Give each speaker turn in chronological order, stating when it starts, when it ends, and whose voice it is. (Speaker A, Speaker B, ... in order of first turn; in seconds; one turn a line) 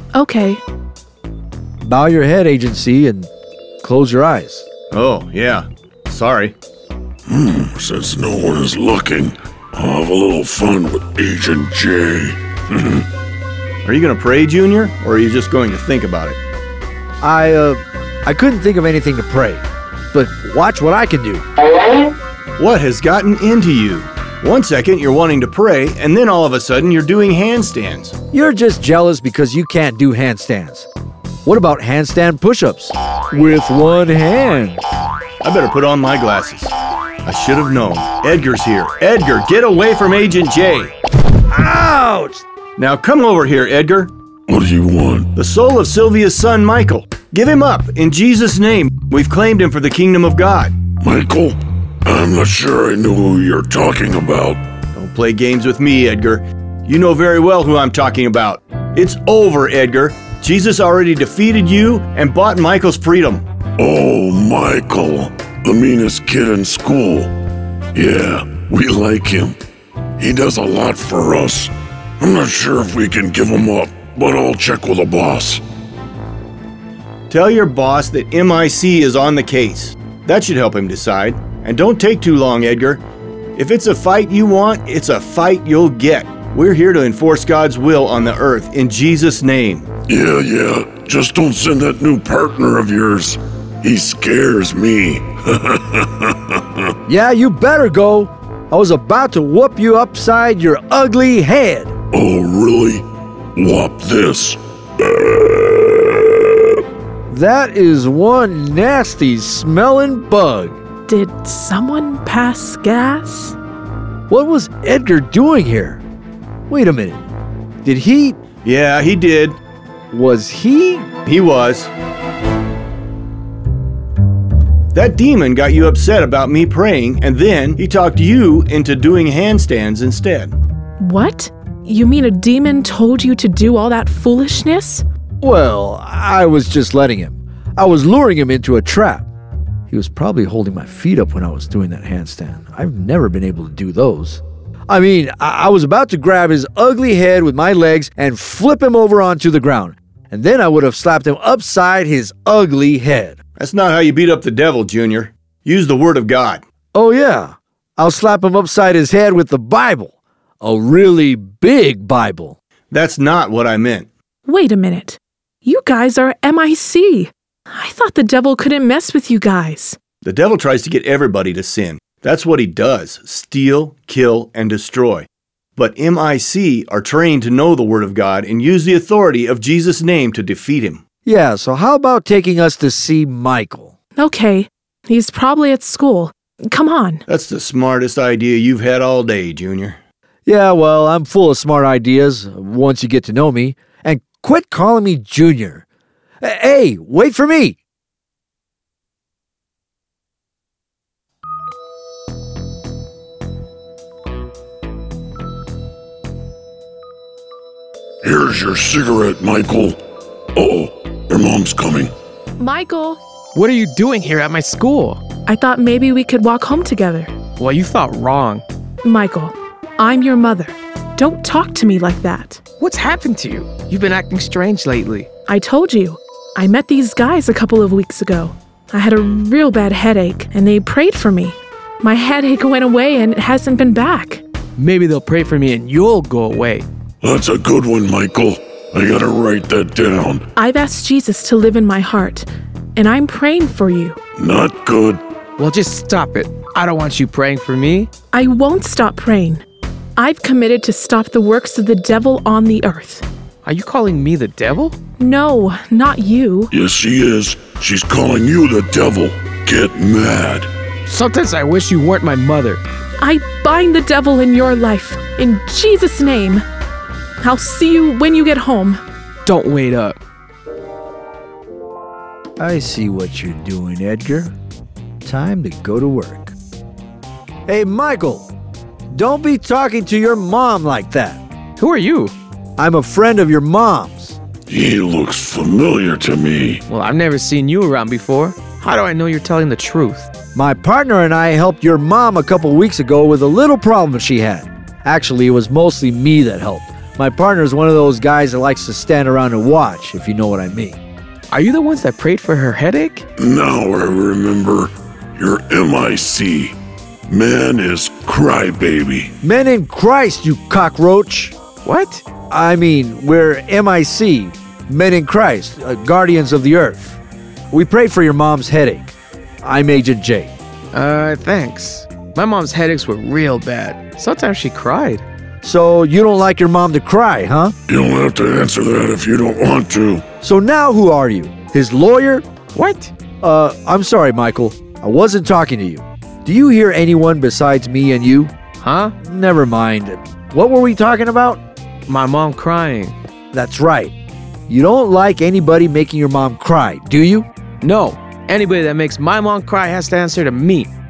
Speaker A: 0.1-0.6
Speaker B: 1.8-3.3
Speaker B: 3.8-4.7
Speaker C: 4.9-6.5
Speaker D: 7.3-13.1
Speaker C: 13.8-16.4
Speaker B: 17.2-21.5
Speaker C: 22.6-28.2
Speaker B: 28.3-30.9
Speaker B: 31.4-34.8
Speaker C: 35.4-36.7
Speaker C: 37.2-40.9
Speaker B: 41.5-42.5
Speaker C: 42.8-44.1
Speaker D: 44.5-45.3
Speaker C: 45.4-50.7
Speaker D: 51.0-54.6
Speaker C: 55.0-63.5
Speaker D: 63.8-67.3
Speaker D: 67.9-69.6
Speaker D: 70.2-75.6
Speaker C: 77.3-83.0
Speaker C: 83.6-89.9
Speaker D: 90.1-96.9
Speaker B: 97.1-101.9
Speaker D: 102.1-103.0
Speaker D: 103.6-106.8
Speaker B: 107.3-110.8
Speaker A: 111.1-113.6
Speaker B: 114.3-116.0
Speaker B: 116.7-117.3
Speaker B: 117.8-118.4
Speaker C: 118.6-119.6
Speaker B: 120.1-121.1
Speaker C: 121.3-121.9
Speaker C: 124.9-130.5
Speaker A: 131.0-135.1
Speaker B: 135.4-139.3
Speaker B: 139.9-153.4
Speaker C: 153.6-156.6
Speaker B: 156.9-162.6
Speaker C: 162.9-164.1
Speaker A: 164.5-170.0
Speaker C: 170.2-181.0
Speaker B: 181.2-183.9
Speaker A: 184.2-187.2
Speaker C: 187.3-190.0
Speaker B: 190.5-195.8
Speaker B: 196.4-197.8
Speaker D: 208.2-210.0
Speaker D: 210.6-212.1
Speaker A: 212.6-213.2
Speaker E: 213.6-215.2
Speaker A: 215.5-217.3
Speaker E: 217.6-218.6
Speaker A: 219.0-222.6
Speaker E: 222.8-225.3
Speaker A: 225.5-234.4
Speaker E: 234.8-236.9
Speaker D: 237.2-240.4
Speaker A: 240.6-244.2
Speaker D: 244.4-245.2
Speaker E: 245.6-248.1
Speaker A: 248.3-249.6
Speaker A: 250.2-253.2
Speaker E: 253.7-255.0
Speaker A: 255.2-256.7
Speaker D: 256.7-260.7
Speaker E: 261.1-262.8
Speaker A: 263.2-266.6
Speaker A: 267.4-269.0
Speaker E: 269.4-270.2
Speaker B: 272.6-274.5
Speaker B: 275.2-276.6
Speaker B: 277.7-278.5
Speaker B: 279.1-281.4
Speaker E: 281.8-282.3
Speaker B: 282.8-284.4
Speaker D: 284.7-286.8
Speaker E: 286.9-290.3
Speaker B: 290.6-301.0
Speaker E: 301.5-303.2
Speaker D: 303.4-306.8
Speaker D: 307.3-309.3
Speaker B: 309.4-311.6
Speaker E: 311.8-312.3
Speaker B: 312.5-317.2
Speaker B: 317.7-320.5
Speaker E: 320.9-325.2
Speaker B: 325.6-327.7
Speaker D: 327.9-330.3
Speaker B: 330.4-332.5
Speaker E: 332.7-333.1
Speaker B: 333.4-338.5
Speaker E: 338.8-339.1
Speaker B: 339.2-341.6
Speaker E: 342.1-343.1
Speaker B: 343.5-344.1
Speaker B: 344.7-347.5
Speaker E: 347.8-350.9